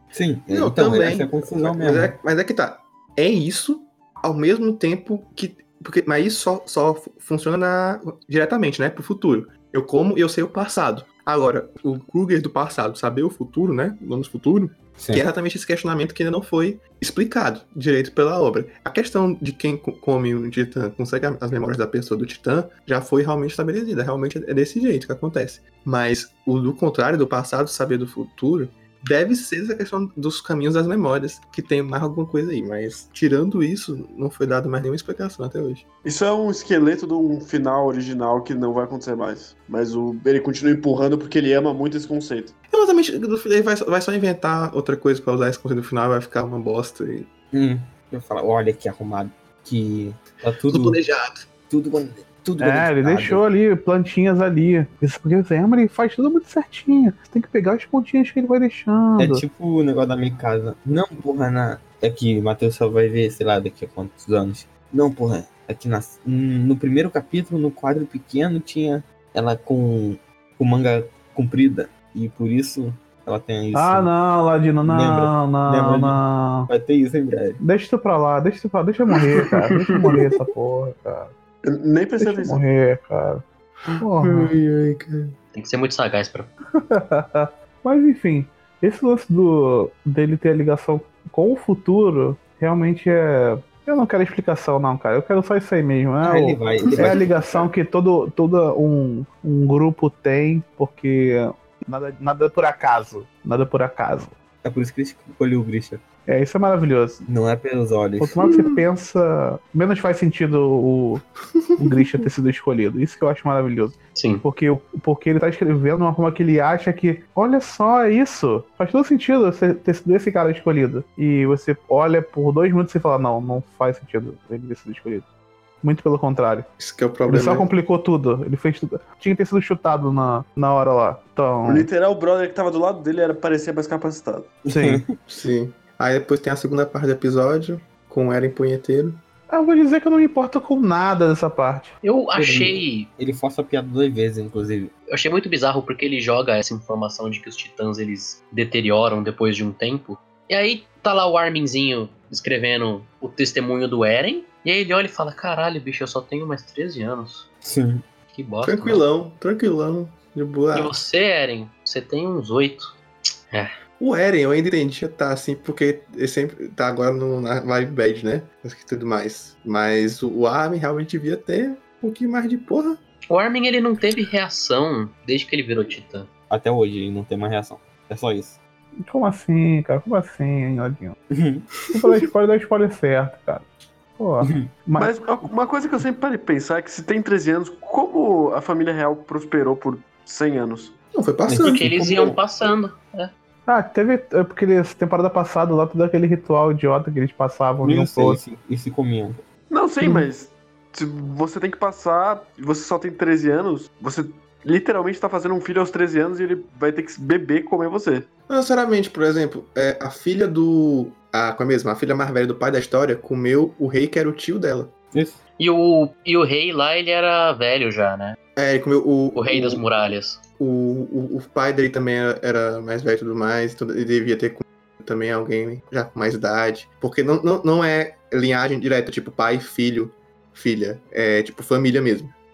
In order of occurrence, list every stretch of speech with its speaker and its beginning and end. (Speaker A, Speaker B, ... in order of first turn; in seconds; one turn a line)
Speaker A: 0.1-2.1
Speaker B: 0.5-35.9
Speaker A: 15.0-15.2
Speaker C: 36.0-42.5
Speaker B: 42.7-47.3
Speaker A: 47.5-51.0
Speaker B: 50.7-51.5
Speaker A: 51.7-53.4
Speaker D: 52.6-59.4
Speaker A: 59.2-74.1
Speaker D: 73.7-76.7
Speaker A: 74.8-77.6
Speaker D: 77.6-81.3
Speaker C: 81.7-82.6
Speaker D: 82.2-83.4
Speaker D: 84.0-84.5
Speaker B: 84.3-85.3
Speaker E: 85.5-86.5
Speaker D: 86.8-104.3
Speaker A: 96.2-97.3
Speaker A: 104.6-106.0
Speaker D: 106.3-107.2
Speaker A: 107.2-108.4
Speaker D: 108.2-111.2
Speaker B: 108.4-108.8
Speaker D: 111.8-125.3
Speaker E: 114.2-114.5
Speaker D: 125.8-126.7
Speaker B: 126.8-127.7
Speaker D: 127.3-131.9
Speaker C: 131.7-134.6
Speaker D: 134.7-135.1
Speaker A: 134.7-135.1
Speaker B: 135.2-139.2
Speaker D: 139.5-141.9
Speaker E: 142.0-143.1
Speaker A: 142.3-144.9
Speaker E: 145.1-157.5
Speaker A: 157.6-158.1
Speaker E: 158.3-159.1
Speaker B: 158.6-161.0
Speaker E: 160.7-162.9
Speaker B: 164.0-173.0
Speaker E: 173.3-176.3
Speaker A: 176.5-178.6
Speaker D: 179.0-181.2
Speaker A: 181.3-181.7
Speaker D: 181.9-185.2
Speaker A: 184.4-184.7
Speaker C: 185.0-191.0
Speaker B: 191.1-191.9
Speaker A: 191.5-192.4
Speaker E: 191.7-193.3
Speaker D: 193.7-198.4
Speaker A: 197.8-199.4
Speaker C: 199.7-208.3
Speaker B: 208.5-214.9
Speaker A: 215.1-215.4
Speaker E: 215.6-218.4
Speaker B: 218.6-219.8
Speaker E: 219.3-220.4
Speaker B: 220.6-232.3